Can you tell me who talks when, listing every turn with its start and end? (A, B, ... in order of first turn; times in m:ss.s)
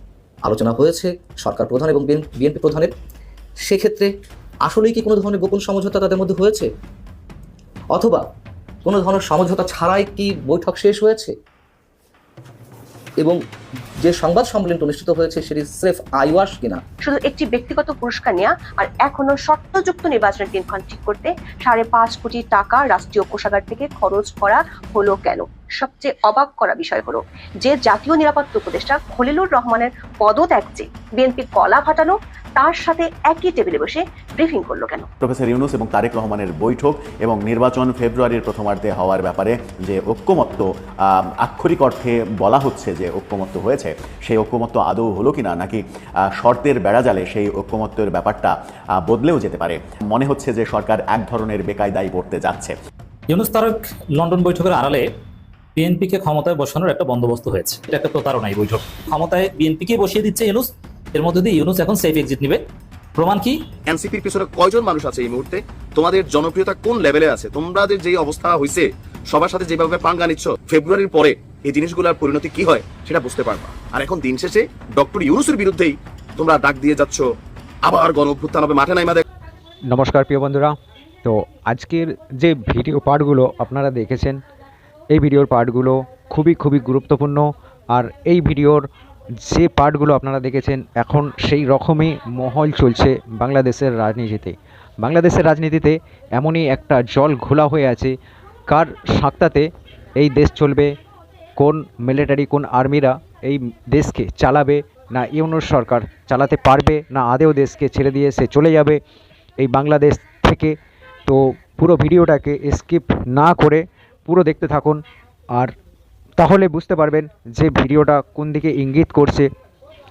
0:00.4-0:02.9 A
0:03.7-0:04.1 A
0:04.6-0:06.7 A
0:07.9-0:08.2 A
0:08.8-0:11.3 A
0:14.0-0:16.8 A
0:17.0-0:35.1 B
0:35.2-0:45.8 C
0:46.4-0:52.8 C
0:55.8-0:56.0 D
0:57.0-0:57.5 D
0:58.1-0:58.4 D
0:59.5-1:00.5 D
1:01.3-1:02.4 D
1:03.9-1:17.2 E
1:17.8-1:19.2 E
1:19.9-1:24.4 F
1:25.1-1:28.8 F
1:29.4-1:38.1 F
1:38.7-1:40.9 F
1:41.6-1:49.0 F
1:49.6-1:50.8 F
1:51.3-1:55.0 F
1:56.4-1:59.5 F